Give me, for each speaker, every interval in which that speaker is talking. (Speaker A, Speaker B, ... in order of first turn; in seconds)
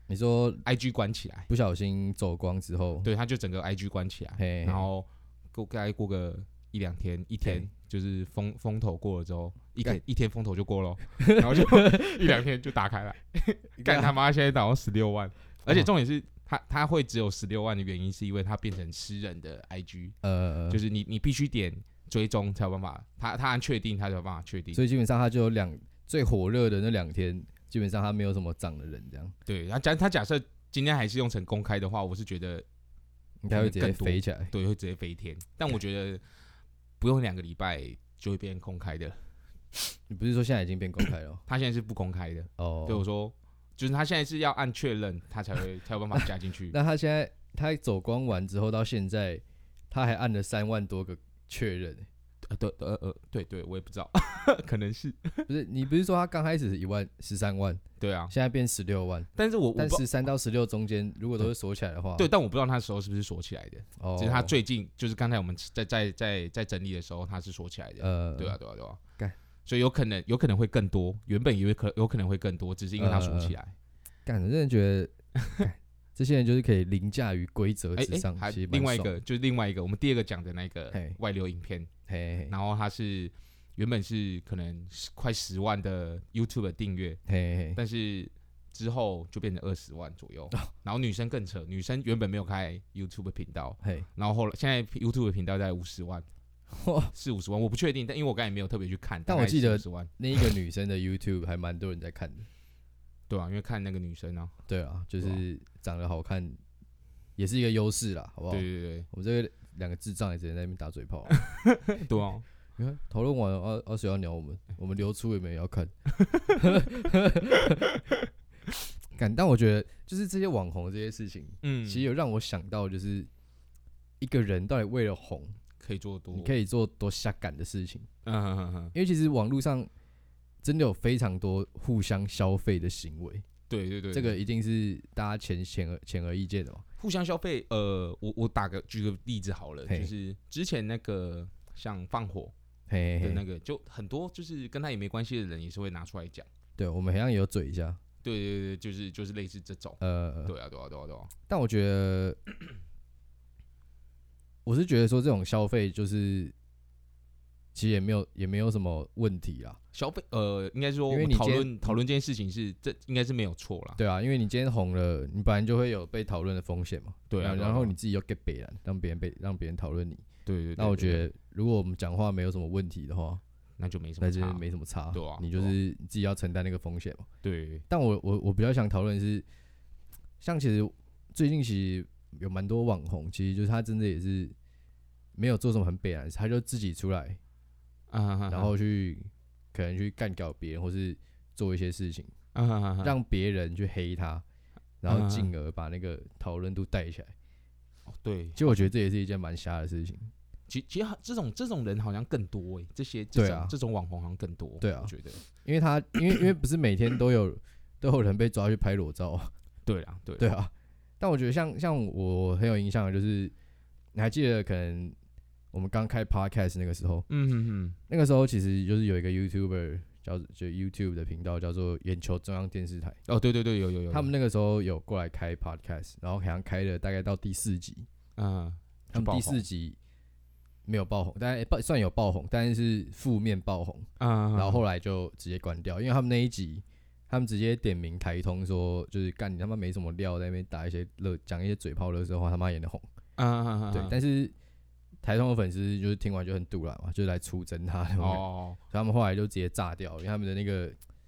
Speaker A: 0.1-0.7, 1.5-3.1, 4.4-4.9, 11.2-12.3, 13.8-14.2, 20.2-20.8, 24.7-29.4, 33.4-34.5, 40.1-41.4, 42.6-43.1, 46.7-52.1, 55.5-62.3, 64.0-64.6, 68.0-68.6, 73.0-73.6, 74.3-79.2, 80.9-81.2, 82.1-82.5, 87.3-87.8, 93.8-94.1, 96.7-97.1, 99.3-102.5, 104.7-106.6, 107.4-111.4, 112.8-115.9, 116.5-118.0, 119.2-123.3, 124.2-125.6, 126.3-128.1, 128.9-129.9, 130.6-133.5, 134.1-136.8, 142.9-143.4, 146.8-148.0, 150.0-150.5, 151.5-152.4, 154.7-156.5, 157.8-159.8, 161.1-162.0, 164.0-170.2, 170.8-173.4, 174.2-177.3, 177.9-179.5, 180.4-184.5, 185.4-187.4, 188.5-192.3, 193.0-194.4, 195.0-197.3, 198.6-200.3, 203.3-203.8, 204.8-209.5, 210.4-213.5, 214.1-215.2, 215.7-217.3, 218.1-223.2, 224.1-228.1, 229.1-230.0, 230.9-243.1, 243.9-244.5, 245.2-251.0
Speaker B: 0.7-1.5, 3.0-20.2, 20.7-24.8, 29.5-32.7, 33.5-36.2, 37.0-39.2, 41.5-46.8, 52.5-55.5, 58.0-58.3, 59.4-60.0, 62.2-69.0, 69.7-73.8, 78.0-81.9, 82.5-87.2, 87.8-96.3, 97.1-100.5, 103.3-104.5, 108.5-109.1, 111.4-112.4, 116.2-116.6, 121.6-122.1, 125.8-126.5, 128.2-128.9, 133.7-134.4, 137.0-142.5, 143.2-146.5, 148.2-151.3, 159.9-164.0, 167.3-167.9, 170.5-171.3, 173.8-175.8, 177.4-177.8, 188.1-188.7, 192.5-193.2, 195.1-195.5, 198.1-198.9, 200.7-205.4, 209.9-210.5, 217.3-218.0, 223.3-224.3, 228.4-229.6, 234.2-234.8, 243.4-244.2, 248.2-248.8